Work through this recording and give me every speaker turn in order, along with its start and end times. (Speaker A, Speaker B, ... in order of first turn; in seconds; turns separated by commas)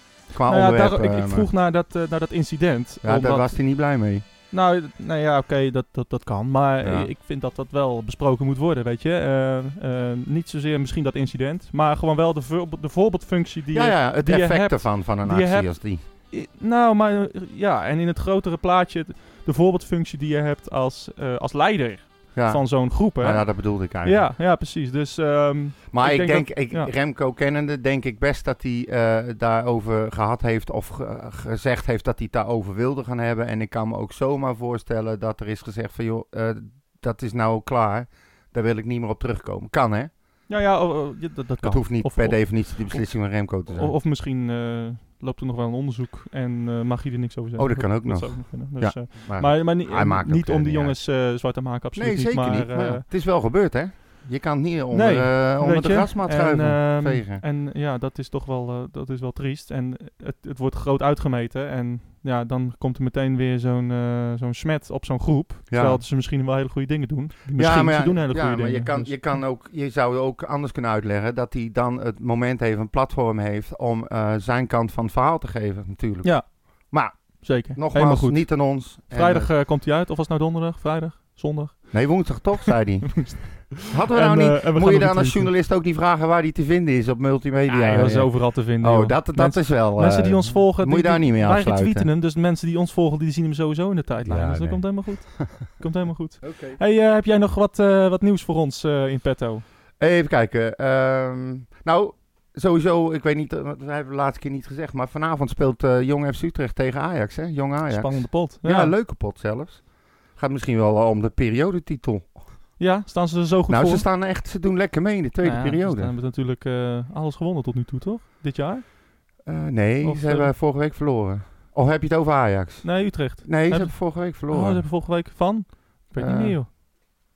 Speaker A: 0.3-1.5, Speaker B: 0.5-3.5, Speaker A: 3.0-4.2, Speaker B: 4.5-26.9, Speaker A: 6.8-7.1, Speaker A: 13.7-16.0, Speaker A: 22.3-24.3, Speaker A: 25.9-40.1, Speaker B: 40.5-53.0, Speaker A: 41.6-43.9, Speaker A: 47.6-51.0, Speaker A: 51.9-57.4, Speaker B: 54.9-69.4, Speaker A: 65.7-66.0, Speaker A: 67.5-79.5, Speaker B: 76.2-82.2, Speaker A: 81.9-92.1, Speaker B: 83.1-85.5, Speaker B: 87.7-99.7, Speaker A: 94.2-95.6, Speaker A: 96.4-96.8, Speaker A: 100.0-112.4, Speaker B: 107.9-108.9, Speaker B: 112.8-114.1, Speaker A: 113.7-116.1, Speaker B: 115.4-118.8, Speaker A: 119.4-124.9, Speaker B: 120.0-120.5, Speaker B: 122.8-126.7, Speaker A: 126.2-126.6